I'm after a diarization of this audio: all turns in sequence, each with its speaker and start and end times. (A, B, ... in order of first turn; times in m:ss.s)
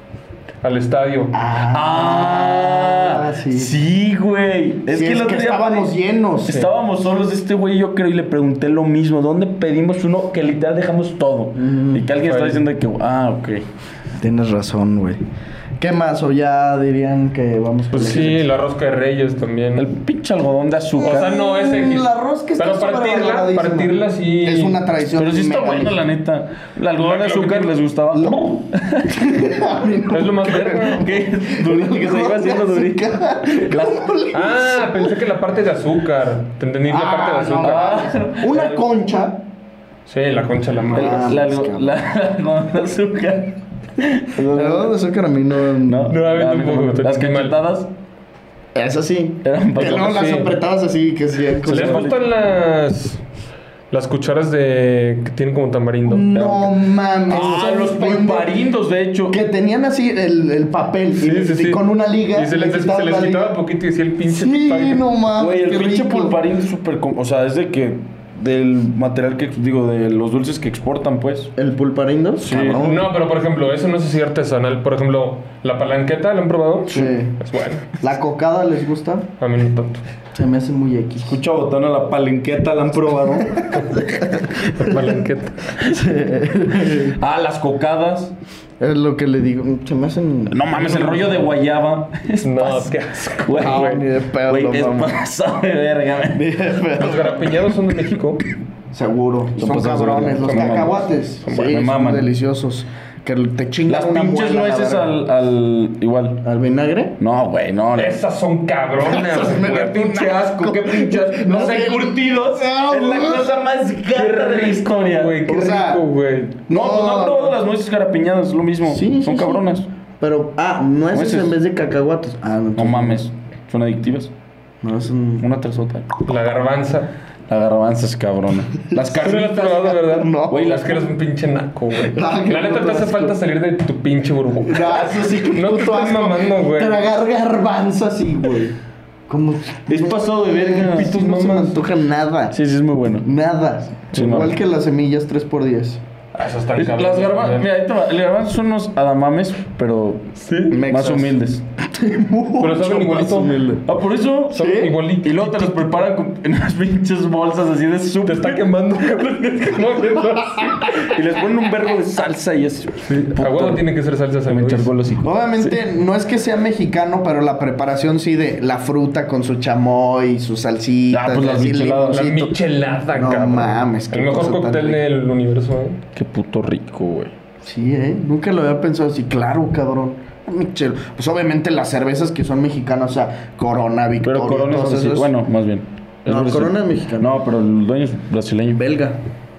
0:00.6-0:01.3 A
0:01.3-0:03.7 B
0:01.7-0:13.6 C
0:04.9-0:06.6 B
0:11.6-0:12.1 B
0:12.2-0:12.6 A
0:14.2-0:15.2 B
0:15.8-0:18.4 B
0:17.9-0:18.3 C
0:17.9-0:19.8 A
0:19.8-0:21.3 C
0:21.0-0:26.0 B
0:21.0-0:24.8 A
0:25.1-0:29.3 C
0:27.0-0:27.7 A
0:28.1-0:35.2 B
0:30.1-0:31.1 A
0:30.5-0:34.1 C
0:34.3-0:37.9 A
0:36.9-0:39.4 B
0:37.6-0:38.8 C
0:40.1-0:41.3 A
0:40.9-0:41.9 B
0:40.9-0:44.9 C
0:44.5-0:46.1 B
0:45.8-0:47.9 C
0:46.1-0:47.6 A
0:48.7-0:52.1 B
0:49.4-0:50.4 C
0:49.9-0:50.5 A
0:51.6-0:52.2 C
0:51.7-0:53.2 A
0:53.9-0:56.3 A
0:56.0-0:58.5 B
0:56.3-0:59.4 C
0:59.3-1:03.6 B
1:01.2-1:01.8 A
1:02.3-1:05.0 A
1:04.2-1:06.4 B
1:05.4-1:11.5 C
1:11.6-1:13.0 B
1:12.4-1:12.9 C
1:12.7-1:17.9 A
1:16.9-1:17.4 B
1:18.0-1:19.3 B
1:19.4-1:20.0 A
1:20.3-1:21.4 B
1:21.2-1:24.0 C
1:23.7-1:24.3 B
1:24.7-1:25.8 A
1:25.8-1:27.2 B
1:26.8-1:28.3 C
1:28.8-1:31.2 B
1:30.5-1:36.4 C
1:30.8-1:31.4 A
1:32.4-1:34.0 A
1:33.6-1:35.2 B
1:36.3-1:37.6 B
1:37.0-1:38.4 A
1:38.9-1:45.2 B
1:39.6-1:42.3 C
1:41.4-1:41.8 A
1:43.9-1:46.4 C
1:46.4-1:47.2 B
1:47.2-1:48.2 C
1:47.9-1:50.0 A
1:49.0-1:53.6 B
1:49.4-1:55.4 C
1:54.4-1:56.6 A
1:55.4-1:56.0 B
1:56.7-1:59.9 C
1:56.7-1:57.6 B
1:58.9-1:59.7 B
2:00.2-2:03.2 B
2:01.1-2:01.6 C
2:02.8-2:04.3 C
2:04.8-2:05.4 B
2:05.4-2:06.2 C
2:06.2-2:07.1 A
2:07.5-2:09.8 C
2:08.9-2:10.8 B
2:09.1-2:17.0 A
2:10.5-2:11.1 C
2:12.0-2:13.4 B
2:14.6-2:18.8 B
2:19.3-2:22.6 B
2:19.9-2:21.1 C
2:20.9-2:21.8 A
2:22.5-2:23.3 C
2:23.2-2:26.0 B
2:24.1-2:24.5 C
2:26.3-2:27.7 A
2:26.7-2:31.6 C
2:30.4-2:30.8 A
2:30.7-2:33.8 B
2:32.6-2:33.7 A
2:32.9-2:38.7 C
2:34.5-2:36.0 A
2:34.5-2:35.0 B
2:38.2-2:41.0 A
2:40.8-2:43.8 C
2:43.4-2:44.9 A
2:44.5-2:45.8 C
2:45.2-2:52.6 B
2:51.1-2:52.5 C
2:52.1-2:56.0 A
2:53.1-2:55.0 B
2:56.1-2:57.3 C
2:57.6-3:05.3 B
3:04.2-3:08.8 C
3:06.2-3:07.3 B
3:08.7-3:09.2 B